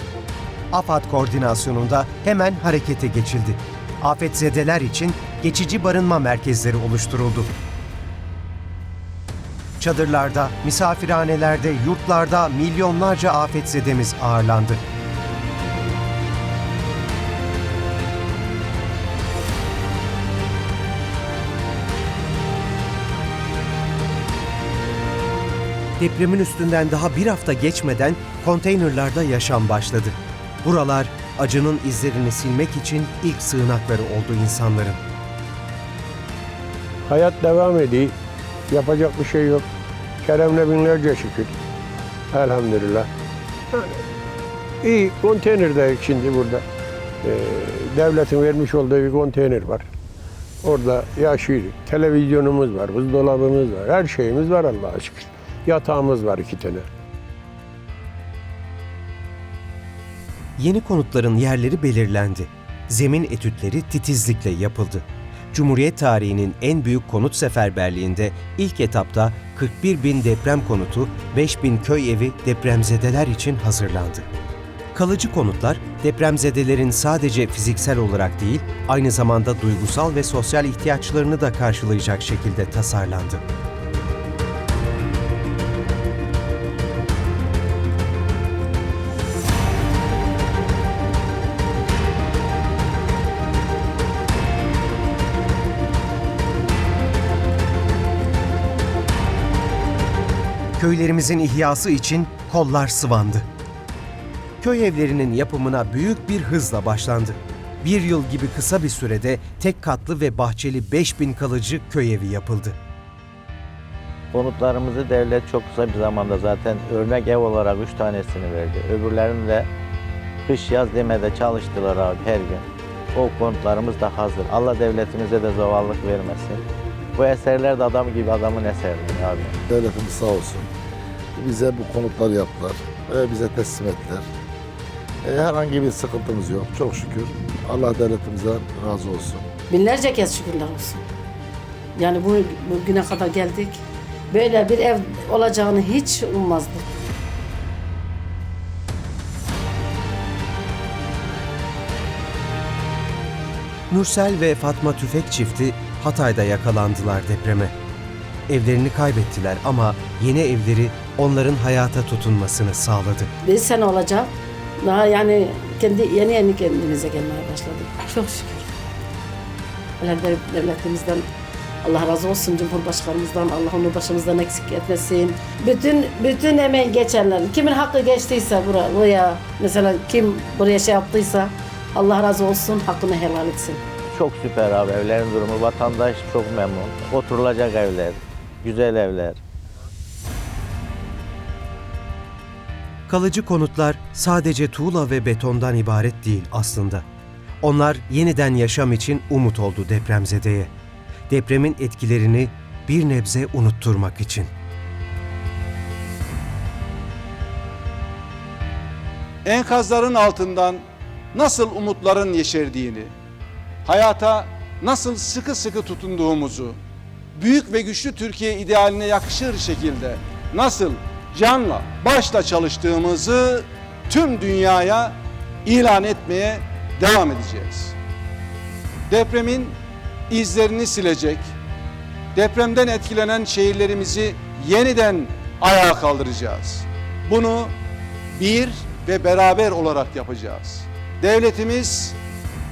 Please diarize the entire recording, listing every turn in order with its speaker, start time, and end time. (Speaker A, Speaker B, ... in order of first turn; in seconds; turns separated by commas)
Speaker A: 0.7-7.5, Speaker A: 9.8-14.8, Speaker A: 26.0-35.0, Speaker B: 37.0-38.1, Speaker B: 38.7-39.7, Speaker B: 40.2-41.5, Speaker B: 42.3-43.1, Speaker B: 44.8-46.6, Speaker B: 47.2-49.9, Speaker B: 50.6-56.9, Speaker A: 60.6-74.3, Speaker A: 74.9-83.4, Speaker A: 100.8-103.5, Speaker A: 104.6-112.8, Speaker C: 114.3-119.7, Speaker C: 120.5-126.6, Speaker C: 127.2-129.5, Speaker D: 129.7-130.7, Speaker D: 131.3-134.3, Speaker D: 135.2-139.5, Speaker E: 139.7-141.0, Speaker E: 142.0-146.8, Speaker A: 153.9-157.7, Speaker A: 158.5-163.3, Speaker E: 163.4-168.7, Speaker E: 170.0-171.2, Speaker E: 171.8-183.8, Speaker C: 184.1-189.4, Speaker A: 193.1-197.0, Speaker A: 197.6-200.7, Speaker A: 201.3-204.5, Speaker F: 209.4-210.8, Speaker F: 211.3-213.1, Speaker F: 213.8-216.8, Speaker F: 217.3-225.2, Speaker F: 225.7-227.9, Speaker F: 229.1-229.8, Speaker F: 230.3-231.5, Speaker F: 232.3-237.7, Speaker F: 238.3-242.2